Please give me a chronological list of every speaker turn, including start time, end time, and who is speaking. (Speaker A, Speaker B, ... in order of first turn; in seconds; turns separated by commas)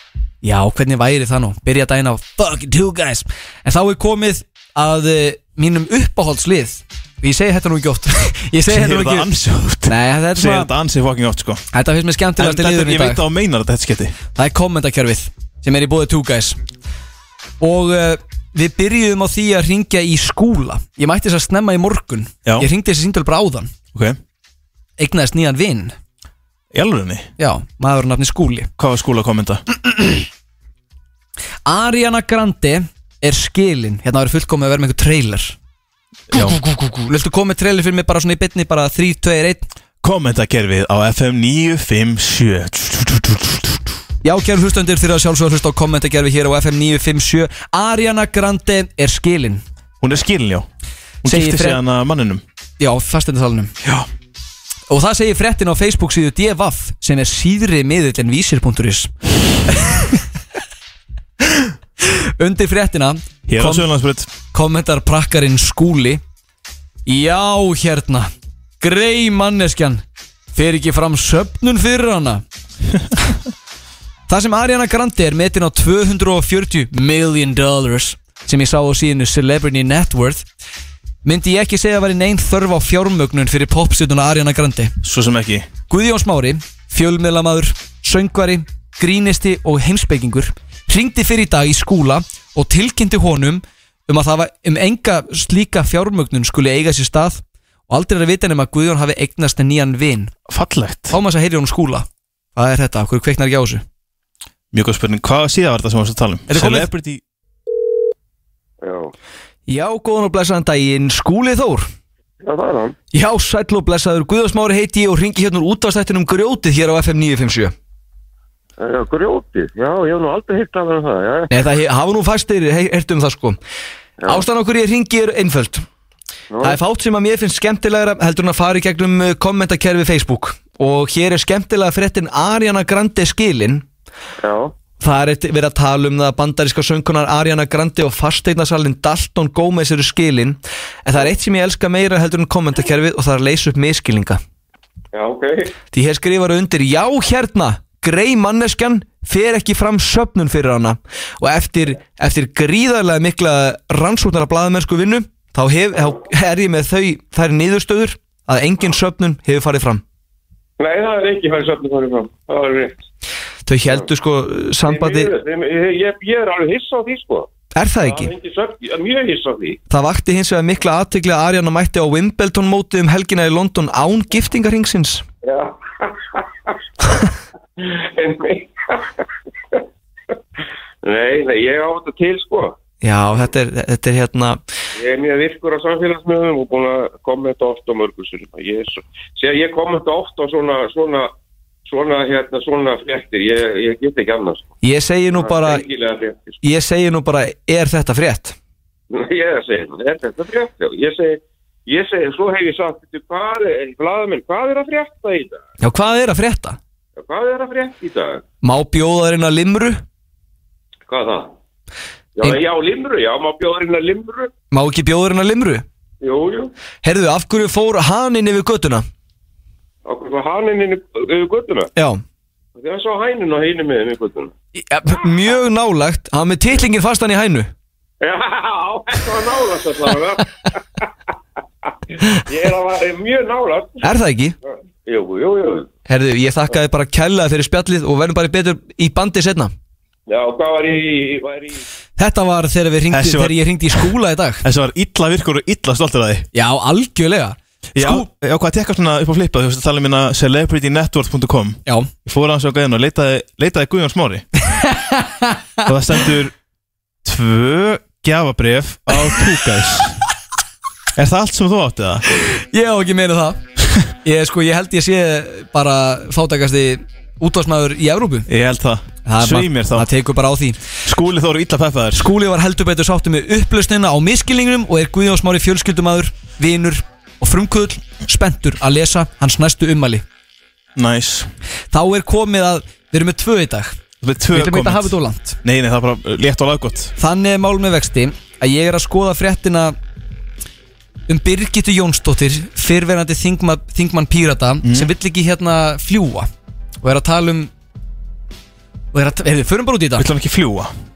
Speaker A: 0.4-9.3, Speaker B: 8.7-11.6, Speaker A: 9.8-10.7, Speaker A: 11.7-13.2, Speaker B: 12.4-14.2, Speaker A: 14.3-16.6, Speaker A: 17.6-23.7, Speaker B: 23.9-24.2, Speaker A: 25.0-25.9, Speaker B: 26.7-27.3, Speaker A: 27.4-28.7, Speaker B: 28.8-29.6, Speaker A: 31.6-35.5, Speaker B: 36.3-36.6, Speaker A: 36.3-39.7, Speaker B: 40.0-43.9, Speaker A: 44.2-49.6, Speaker B: 50.0-50.7, Speaker B: 51.2-52.4, Speaker A: 51.2-51.8, Speaker A: 52.8-53.7, Speaker A: 54.9-59.1, Speaker A: 59.8-60.1, Speaker A: 62.0-63.9, Speaker B: 63.5-64.3, Speaker A: 64.5-66.2, Speaker A: 67.0-70.0, Speaker A: 70.5-72.4, Speaker A: 74.3-80.5, Speaker A: 81.2-84.9, Speaker B: 85.0-85.7, Speaker A: 85.9-100.3, Speaker B: 100.5-101.2, Speaker A: 101.1-103.8, Speaker B: 104.7-107.2, Speaker A: 106.5-106.9, Speaker C: 108.8-109.1, Speaker A: 109.7-111.9, Speaker C: 112.4-113.0, Speaker A: 113.1-117.7, Speaker C: 118.8-121.6, Speaker A: 121.5-123.6, Speaker C: 124.2-124.5, Speaker A: 124.2-125.8, Speaker C: 126.5-126.8, Speaker A: 126.6-133.8, Speaker C: 134.4-134.7, Speaker A: 135.0-144.4, Speaker C: 145.1-145.7, Speaker A: 145.9-160.0, Speaker C: 160.8-163.0, Speaker A: 163.7-165.3, Speaker C: 164.8-169.8, Speaker A: 167.7-168.3, Speaker A: 169.9-175.2, Speaker C: 175.4-179.8, Speaker C: 181.0-182.8, Speaker A: 183.0-184.6, Speaker C: 185.0-191.3, Speaker C: 191.8-194.7, Speaker A: 194.8-195.8, Speaker C: 195.3-196.6, Speaker A: 196.6-198.6, Speaker C: 199.1-205.6, Speaker A: 205.8-206.8, Speaker C: 207.2-208.4, Speaker A: 208.6-210.0, Speaker C: 211.1-211.5, Speaker C: 212.4-214.5, Speaker A: 214.7-215.8, Speaker C: 216.2-216.7, Speaker A: 217.0-219.0, Speaker C: 220.1-221.9, Speaker A: 221.9-222.2, Speaker C: 222.8-224.5, Speaker A: 224.8-227.7, Speaker C: 228.2-231.1, Speaker C: 231.8-234.1, Speaker A: 234.0-234.5, Speaker C: 234.7-235.9, Speaker A: 236.1-239.7, Speaker C: 240.3-241.8, Speaker A: 242.2-244.6, Speaker B: 243.1-244.1, Speaker B: 244.6-246.5, Speaker A: 246.5-248.3, Speaker B: 247.9-254.4, Speaker A: 254.7-255.6, Speaker B: 255.8-256.5, Speaker B: 257.2-260.2, Speaker B: 261.1-262.2, Speaker A: 262.4-263.6, Speaker A: 264.2-268.5, Speaker B: 268.5-270.1, Speaker A: 269.2-270.8, Speaker B: 271.0-272.3, Speaker A: 272.1-280.2, Speaker B: 280.9-281.5, Speaker A: 281.9-283.9, Speaker B: 284.2-287.1, Speaker A: 284.5-285.6, Speaker A: 287.2-289.9, Speaker A: 291.3-296.5, Speaker B: 294.8-295.1, Speaker A: 297.0-297.7, Speaker A: 299.1-300.3, Speaker B: 300.2-300.9